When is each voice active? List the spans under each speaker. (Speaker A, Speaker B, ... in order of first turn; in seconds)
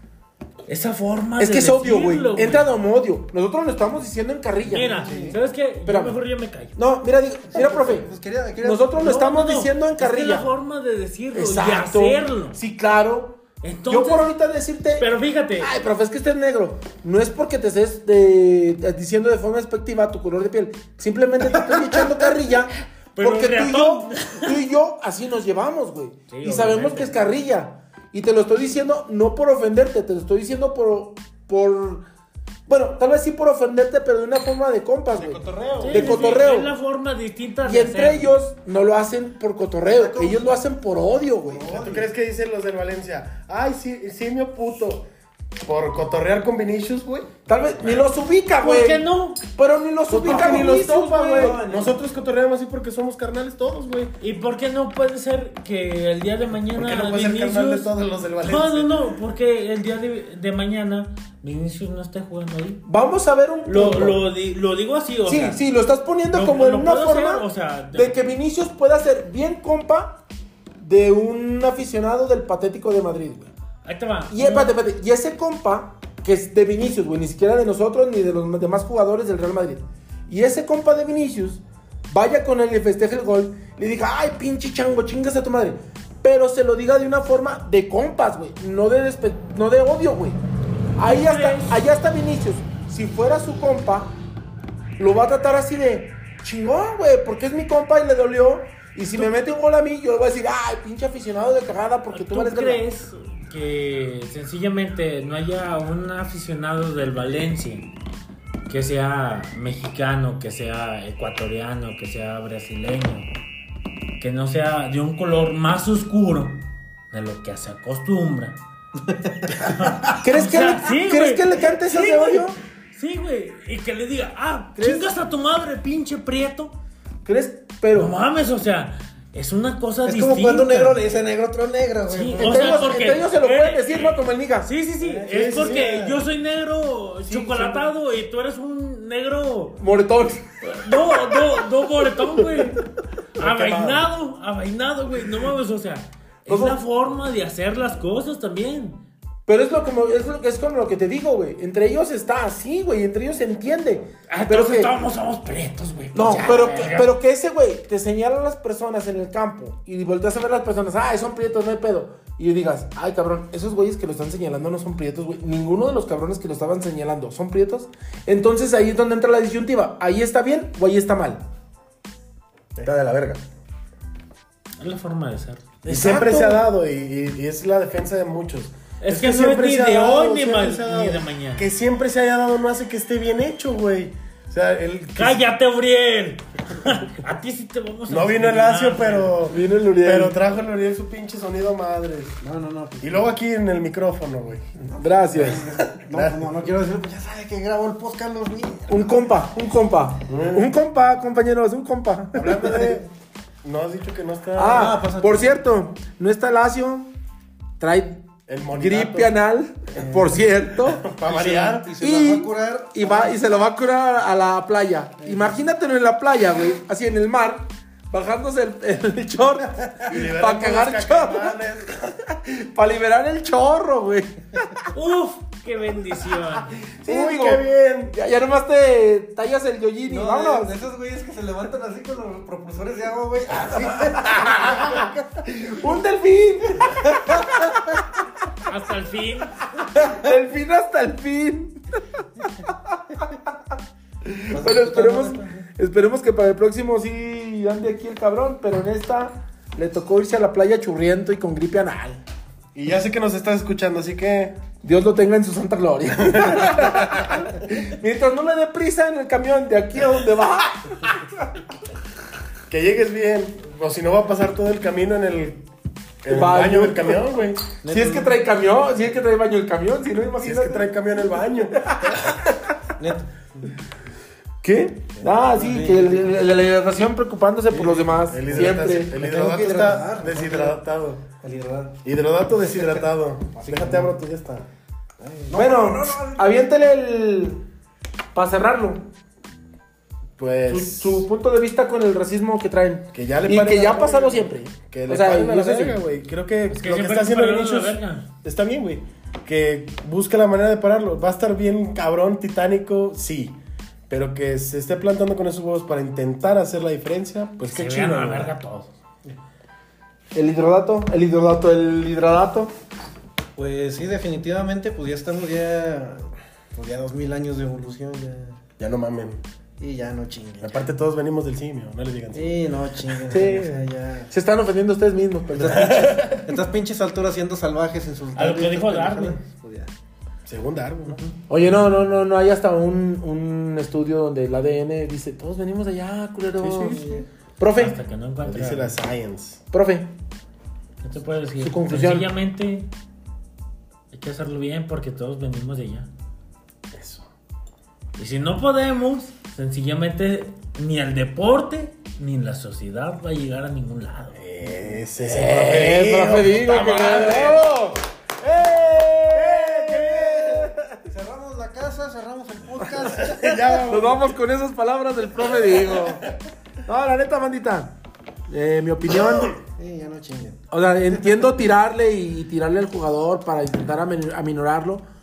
Speaker A: 0.7-2.7, 4.6-6.8, 9.0-12.6, 13.6-14.3, 15.0-15.7, 23.1-24.6, 26.3-27.1, 35.8-38.3, 48.6-49.4, 54.2-62.8, 63.6-65.6, 66.3-68.2, 73.8-74.7, 91.0-91.7, 102.1-107.9, 108.7-113.3, 114.2-118.6, 119.6-126.7, 127.9-131.0, 132.1-139.8, 140.6-142.8, 143.4-149.0, 154.3-157.1, 174.8-175.7, 179.0-181.7, 185.2-189.4, 224.9-226.8, 238.6-239.6, 296.7-298.3, 307.6-308.9, 328.3-329.4, 337.7-338.9, 341.0-342.9, 344.1-346.1, 348.2-354.4
Speaker B: 1.4-5.2, 5.8-6.2, 6.7-8.1, 8.6-10.5, 11.3-15.1, 15.6-32.0, 32.7-36.7, 37.6-41.7, 47.5-51.6, 62.9-64.2, 65.2-70.2, 70.8-73.5, 74.3-90.4, 91.0-94.1, 95.0-102.8, 120.2-122.6, 124.8-125.1, 127.2-128.1, 132.4-134.7, 137.3-137.7, 139.8-140.5, 146.5-146.8, 149.4-154.9, 156.1-171.4, 175.8-176.6, 189.5-190.3, 194.9-195.6, 198.9-202.9, 204.6-207.1, 207.8-211.1, 212.0-224.8, 227.0-230.7, 234.1-238.0, 239.8-241.8, 242.4-242.7, 244.2-252.2, 254.8-261.2, 266.3-267.3, 267.8-270.9, 271.8-272.6, 274.6-279.1, 285.5-287.6, 288.3-289.0, 290.7-296.0, 310.3-312.7, 323.3-326.1, 331.5-337.0, 337.6-337.9, 339.7-340.1, 341.6-342.3, 355.2-361.0, 363.4-366.2, 366.8-367.9, 368.5-369.6, 370.7-375.0
Speaker C: 4.9-5.4, 7.5-9.1, 21.6-22.0, 39.9-40.6, 41.4-42.1, 50.2-52.0, 119.0-120.1, 130.0-133.0, 135.0-135.9, 192.4-193.2, 195.0-199.2, 204.6-205.6, 209.9-210.4, 211.2-213.4, 215.2-215.5, 230.1-235.4, 244.5-245.6, 267.8-268.3, 273.0-273.7, 275.2-276.4, 277.7-280.8, 281.4-282.0, 283.5-284.1, 285.2-286.5, 313.6-318.6, 319.8-320.9, 322.3-324.3, 325.5-329.9, 331.1-331.4, 336.8-337.2, 361.1-363.6, 369.7-370.6
Speaker D: 35.1-36.3, 41.7-45.0, 45.6-48.1, 50.1-54.1, 56.7-58.9, 135.2-136.2, 143.4-144.1, 172.8-173.3, 175.8-185.4, 188.1-192.4, 193.0-194.7, 195.8-196.5, 200.2-200.7, 202.3-203.1, 203.6-204.9, 208.5-209.3, 210.8-211.9, 220.0-221.9, 227.0-228.1, 252.7-254.6, 256.3-257.5, 262.7-265.6, 266.2-267.6, 270.4-272.3, 278.3-281.2, 282.0-284.6, 290.4-291.2, 293.1-303.6, 304.1-308.5, 318.8-319.4, 320.6-322.6, 325.7-326.5, 330.4-331.2, 336.6-337.0, 338.4-339.6, 346.9-347.3, 354.3-357.7, 359.3-360.6, 363.2-364.3